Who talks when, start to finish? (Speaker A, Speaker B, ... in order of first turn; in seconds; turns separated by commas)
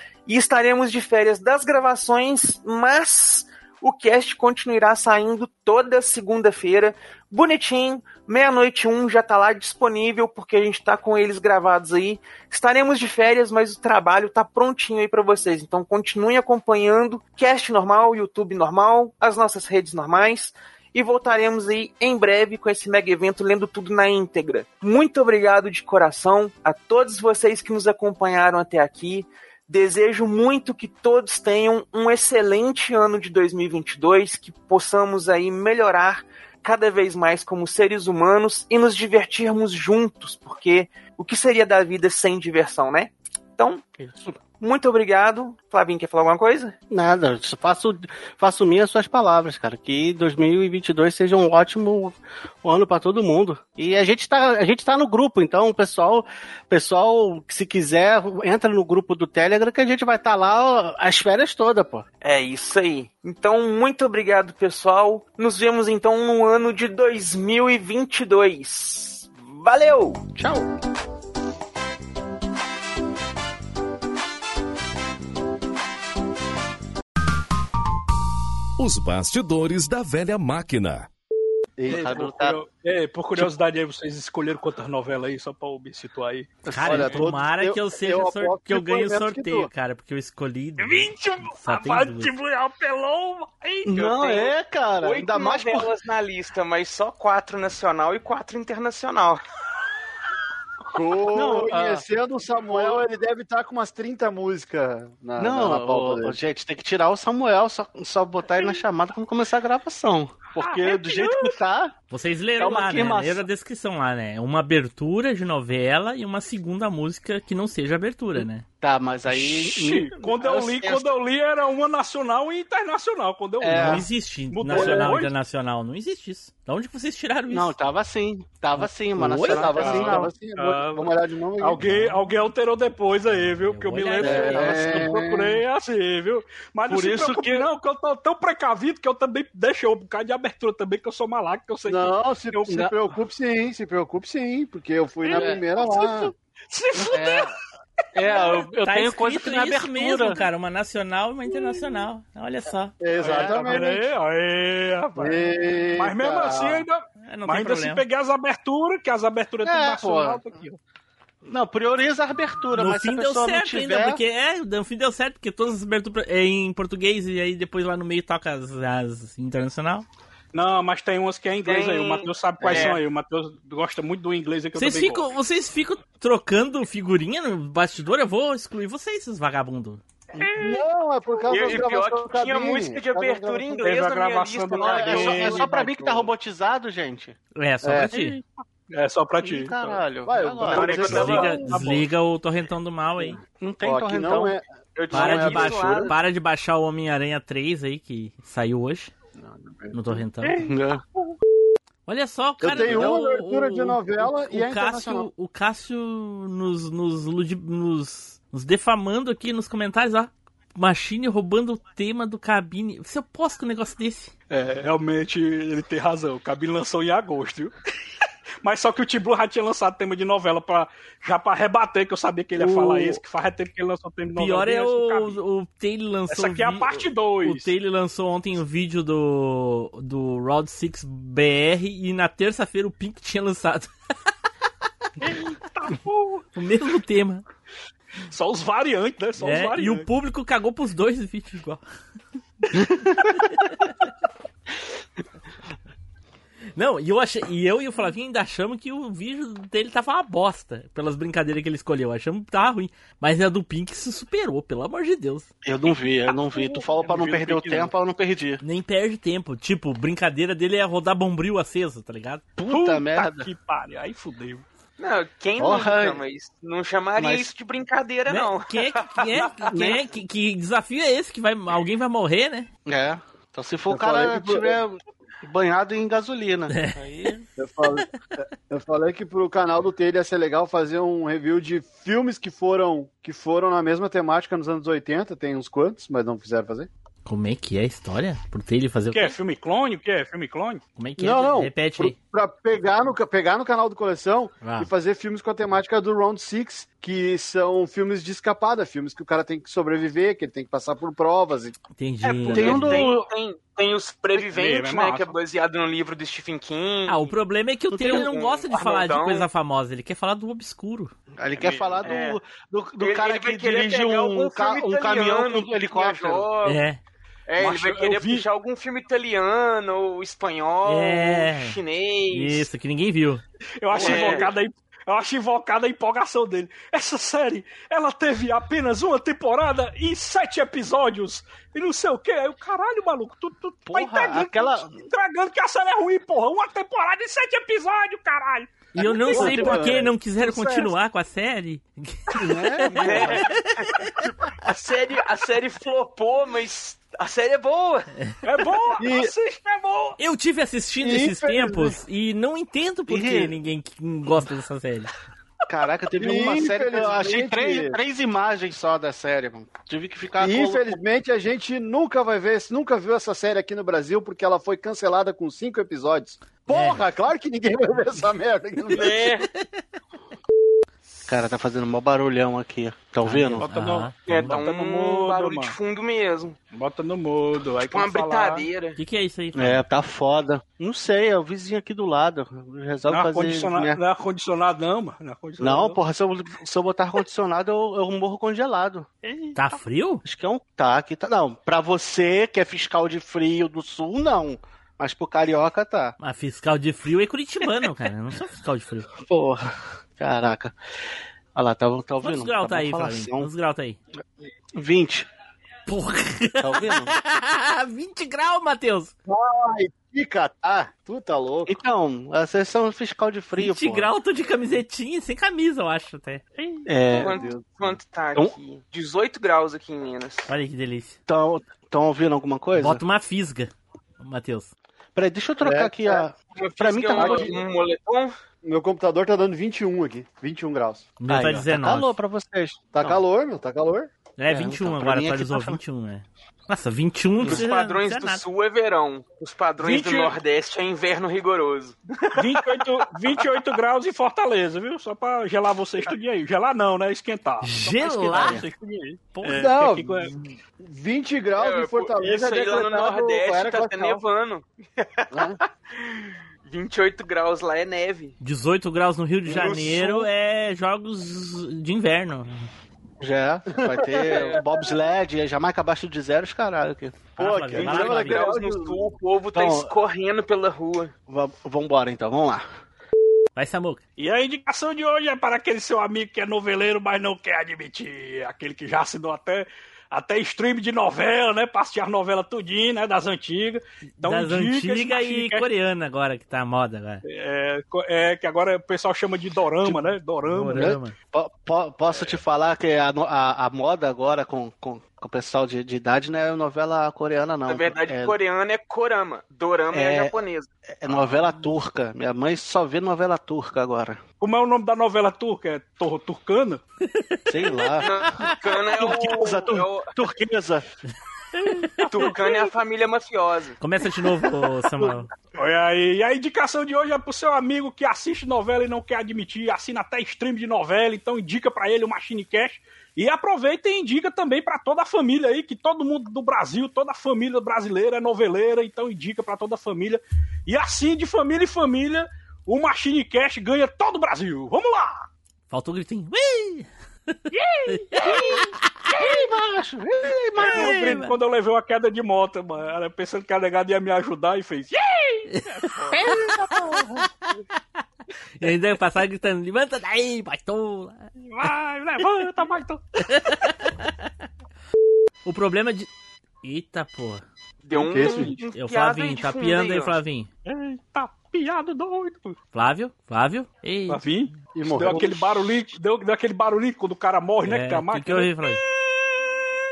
Speaker A: 0.3-43.8, Speaker B: 44.0-44.4, Speaker A: 44.6-46.7, Speaker B: 46.9-62.0, Speaker A: 62.2-70.2, Speaker B: 70.4-70.7, Speaker C: 78.8-81.1, Speaker D: 81.8-82.2, Speaker B: 81.9-82.6, Speaker E: 81.9-87.2, Speaker B: 86.7-87.2, Speaker F: 86.7-92.3, Speaker D: 86.8-89.7, Speaker E: 90.8-93.9, Speaker B: 93.9-95.9, Speaker A: 94.0-99.5, Speaker D: 100.9-106.4, Speaker B: 101.3-102.0, Speaker B: 105.4-111.9, Speaker E: 110.6-111.6, Speaker F: 112.1-118.7, Speaker B: 112.6-113.5, Speaker B: 118.8-121.2, Speaker E: 119.3-125.3, Speaker B: 123.6-124.0, Speaker F: 123.7-127.8, Speaker B: 124.7-125.0, Speaker B: 127.5-130.3, Speaker F: 128.8-129.9, Speaker D: 129.3-132.1, Speaker E: 129.7-142.9, Speaker F: 133.7-134.8, Speaker B: 134.2-135.1, Speaker D: 134.2-135.6, Speaker B: 136.9-137.7, Speaker D: 141.9-146.3, Speaker E: 145.2-147.5, Speaker B: 145.3-145.6, Speaker B: 147.1-147.5, Speaker B: 148.1-150.4, Speaker E: 148.3-148.6, Speaker F: 148.8-152.9, Speaker D: 153.0-154.1, Speaker E: 153.2-160.8, Speaker B: 153.2-153.9, Speaker D: 155.2-156.8, Speaker F: 157.2-158.0, Speaker B: 159.6-160.4, Speaker B: 161.5-164.2, Speaker F: 162.8-170.1, Speaker E: 170.5-175.3, Speaker A: 171.7-173.0, Speaker B: 172.7-172.9, Speaker F: 174.8-180.0, Speaker E: 180.4-180.8, Speaker D: 180.6-183.8, Speaker A: 181.5-185.4, Speaker E: 183.8-185.8, Speaker B: 184.8-187.4, Speaker D: 184.8-186.3, Speaker F: 187.6-188.4, Speaker D: 187.8-188.1, Speaker E: 188.9-190.1, Speaker B: 189.4-191.6, Speaker D: 190.2-191.8, Speaker E: 190.6-192.1, Speaker F: 191.0-193.4, Speaker B: 193.6-194.6, Speaker D: 193.8-195.9, Speaker A: 195.0-196.2, Speaker F: 195.1-199.1, Speaker B: 195.2-195.7, Speaker D: 199.5-200.2, Speaker F: 199.9-200.7, Speaker B: 200.4-201.0, Speaker F: 202.1-214.3, Speaker D: 202.6-205.3, Speaker E: 214.5-217.7, Speaker E: 218.6-225.4, Speaker F: 222.6-223.2, Speaker F: 224.3-233.9, Speaker E: 226.3-227.7, Speaker E: 235.2-236.4, Speaker F: 236.6-237.4, Speaker E: 238.3-240.1, Speaker F: 239.4-241.8, Speaker B: 242.8-243.1, Speaker F: 243.3-243.9, Speaker F: 246.8-255.5, Speaker B: 255.7-258.6, Speaker E: 256.5-257.9, Speaker F: 258.6-262.4, Speaker B: 262.6-263.5, Speaker E: 262.7-264.6, Speaker A: 265.0-269.7, Speaker B: 265.6-266.2, Speaker B: 267.2-267.5, Speaker F: 268.3-272.7, Speaker B: 269.7-270.0, Speaker B: 272.9-277.4, Speaker D: 273.9-274.8, Speaker D: 277.6-286.9, Speaker F: 287.3-289.4, Speaker E: 289.1-290.8, Speaker F: 291.0-292.1, Speaker D: 291.2-301.8, Speaker F: 294.6-294.9, Speaker F: 302.0-303.0, Speaker A: 302.4-307.3, Speaker B: 302.4-303.3, Speaker E: 304.3-305.3, Speaker F: 307.1-311.1, Speaker B: 307.9-308.3, Speaker A: 308.0-309.5, Speaker B: 311.4-316.5, Speaker E: 311.5-312.1, Speaker A: 312.0-312.4, Speaker A: 313.0-316.8, Speaker F: 316.6-317.0, Speaker A: 317.5-322.7, Speaker E: 317.6-318.4, Speaker F: 320.9-321.8, Speaker F: 322.3-323.4, Speaker E: 323.8-340.9, Speaker B: 323.9-324.5, Speaker A: 323.9-324.5, Speaker B: 333.9-334.9, Speaker F: 339.0-344.1, Speaker D: 339.4-340.1, Speaker D: 342.4-343.2, Speaker A: 343.0-343.9, Speaker A: 344.6-348.1, Speaker E: 348.4-350.2, Speaker D: 349.0-349.3, Speaker F: 350.2-355.1, Speaker D: 351.0-352.0, Speaker B: 353.1-353.6, Speaker B: 355.7-361.0, Speaker D: 356.2-358.0, Speaker D: 360.4-369.2, Speaker F: 366.7-367.0, Speaker A: 368.9-369.5, Speaker B: 371.2-373.7, Speaker F: 373.2-374.6, Speaker E: 373.6-375.7, Speaker A: 374.3-376.6, Speaker E: 376.7-378.7, Speaker A: 377.9-379.0, Speaker F: 379.0-379.8, Speaker B: 379.6-384.0, Speaker E: 383.1-386.0, Speaker B: 385.6-389.1, Speaker E: 389.2-389.6, Speaker F: 389.6-390.2, Speaker B: 390.2-396.1, Speaker F: 396.2-399.1, Speaker B: 399.2-400.7, Speaker B: 401.6-403.5, Speaker F: 402.2-404.0, Speaker B: 404.8-405.3, Speaker F: 405.9-409.1, Speaker B: 406.6-407.1, Speaker D: 409.3-411.7, Speaker B: 411.7-414.1, Speaker F: 413.6-416.8, Speaker B: 416.9-417.4, Speaker D: 417.1-418.0, Speaker A: 417.1-420.5, Speaker F: 420.5-421.2, Speaker B: 421.3-423.0, Speaker F: 422.8-424.7, Speaker B: 425.2-427.5, Speaker D: 425.6-426.3, Speaker A: 426.6-428.3, Speaker D: 427.1-427.6, Speaker D: 428.6-431.1, Speaker F: 431.2-432.1, Speaker B: 431.3-433.2, Speaker D: 432.9-434.1, Speaker F: 434.4-438.4, Speaker B: 434.5-435.8, Speaker A: 437.4-442.8, Speaker E: 439.8-440.4, Speaker E: 442.4-450.3, Speaker F: 447.6-448.6, Speaker B: 448.3-448.7, Speaker D: 449.5-454.2, Speaker A: 451.6-458.4, Speaker D: 455.3-455.6, Speaker F: 458.4-462.7, Speaker D: 459.5-460.1, Speaker B: 463.2-467.3, Speaker D: 463.7-464.6, Speaker A: 464.3-464.6, Speaker F: 467.4-468.4, Speaker D: 467.4-469.1, Speaker A: 467.8-471.1, Speaker B: 469.5-469.9, Speaker B: 471.3-472.6, Speaker F: 473.6-474.0, Speaker E: 474.2-485.7, Speaker F: 484.2-487.2, Speaker E: 487.2-491.0, Speaker B: 489.8-490.1, Speaker F: 490.5-491.2, Speaker B: 490.8-498.4, Speaker A: 497.7-500.7, Speaker B: 499.9-500.3, Speaker B: 501.0-504.2, Speaker E: 501.1-501.4, Speaker E: 504.4-506.8, Speaker F: 507.1-507.9, Speaker B: 507.5-508.1, Speaker A: 508.0-510.1, Speaker B: 509.0-510.9, Speaker E: 511.7-512.6, Speaker A: 512.1-513.8, Speaker F: 513.8-515.3, Speaker E: 515.5-535.3, Speaker F: 535.7-536.9, Speaker E: 537.5-539.3, Speaker F: 537.9-538.4, Speaker B: 538.2-538.6, Speaker B: 539.1-541.1, Speaker F: 540.6-541.4, Speaker E: 540.6-546.7, Speaker F: 545.5-546.7, Speaker B: 546.3-547.0, Speaker F: 548.6-551.3, Speaker E: 551.5-553.0, Speaker F: 553.2-554.1, Speaker F: 555.5-556.1, Speaker F: 556.6-557.4, Speaker A: 557.8-560.1, Speaker D: 557.9-558.5, Speaker E: 558.2-558.6, Speaker F: 558.6-560.5, Speaker E: 560.7-562.6, Speaker F: 562.7-564.2, Speaker E: 564.1-569.7, Speaker D: 564.8-565.8, Speaker F: 567.6-568.8